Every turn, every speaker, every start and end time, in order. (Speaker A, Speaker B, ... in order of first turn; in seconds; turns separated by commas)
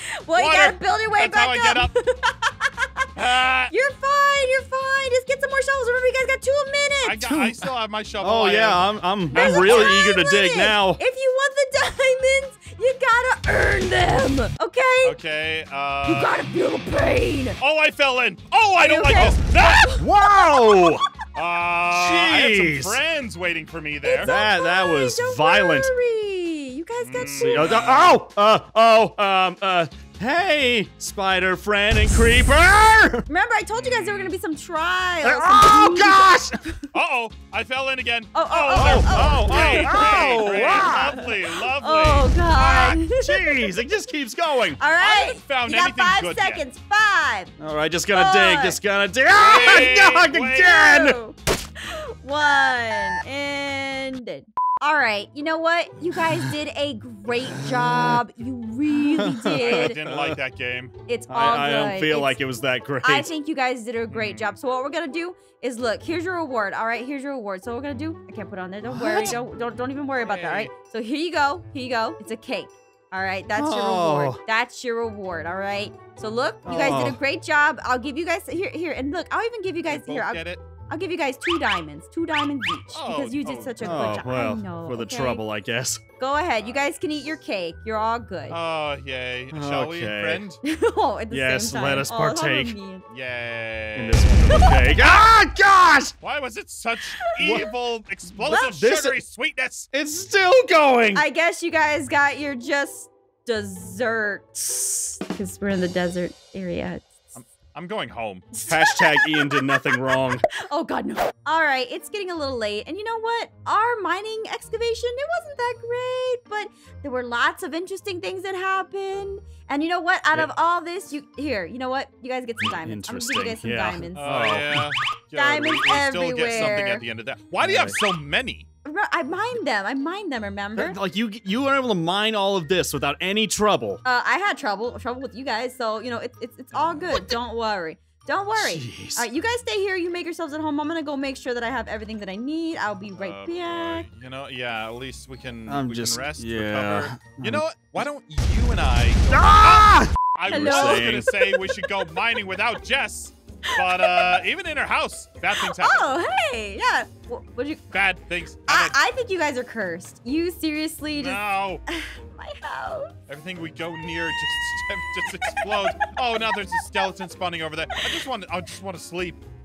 Speaker A: 0.2-3.1, Speaker B: 0.3-1.9, Speaker B: 3.2-3.7, Speaker A: 3.7-7.4, Speaker B: 7.0-9.9, Speaker C: 8.2-11.0, Speaker A: 9.3-15.2, Speaker B: 15.0-16.3, Speaker A: 16.1-17.6, Speaker B: 17.6-19.9, Speaker A: 18.8-20.1, Speaker C: 20.0-21.0, Speaker B: 21.4-24.4, Speaker C: 21.9-23.0, Speaker A: 24.0-27.9, Speaker C: 24.2-25.9, Speaker B: 27.0-28.1, Speaker C: 27.4-33.3, Speaker A: 33.3-36.9, Speaker B: 33.7-34.3, Speaker C: 35.2-36.6, Speaker B: 36.9-42.3, Speaker A: 38.3-43.7, Speaker C: 38.7-41.2, Speaker C: 42.5-44.8, Speaker A: 44.8-47.5, Speaker B: 45.0-46.6, Speaker C: 47.6-51.2, Speaker A: 48.1-48.8, Speaker A: 49.3-50.0, Speaker B: 49.3-50.7, Speaker A: 50.5-60.0, Speaker C: 56.2-56.5, Speaker C: 57.5-58.2, Speaker C: 58.9-60.4, Speaker B: 59.5-60.9, Speaker A: 61.1-62.4, Speaker C: 61.3-63.3, Speaker A: 63.0-85.4, Speaker B: 64.1-64.6, Speaker C: 68.9-69.4, Speaker B: 70.2-70.7, Speaker C: 73.5-74.4, Speaker C: 76.7-77.2, Speaker B: 79.9-80.6, Speaker B: 82.9-84.2, Speaker C: 83.8-86.0, Speaker A: 86.2-88.6, Speaker B: 88.5-90.6, Speaker C: 89.5-90.4, Speaker A: 90.6-93.0, Speaker C: 91.3-92.8, Speaker B: 93.1-95.2, Speaker C: 94.0-96.1, Speaker A: 94.5-94.8, Speaker B: 96.2-99.9, Speaker A: 97.2-97.6, Speaker C: 97.4-97.7, Speaker C: 98.3-99.2, Speaker C: 99.9-101.2, Speaker A: 101.1-107.3, Speaker B: 107.3-108.5, Speaker A: 108.5-124.6, Speaker C: 108.7-110.4, Speaker C: 122.6-124.9, Speaker B: 124.2-128.7, Speaker A: 125.4-127.0, Speaker C: 127.6-128.0, Speaker A: 128.8-131.0, Speaker C: 130.8-134.0, Speaker A: 134.1-144.1, Speaker C: 138.6-139.3, Speaker B: 143.2-156.1, Speaker C: 145.7-147.6, Speaker C: 149.3-151.3, Speaker A: 150.5-151.9, Speaker A: 153.7-154.3, Speaker A: 155.6-157.9, Speaker B: 157.9-159.0, Speaker A: 158.7-163.1, Speaker B: 161.2-161.8, Speaker B: 163.3-169.4, Speaker A: 165.4-165.8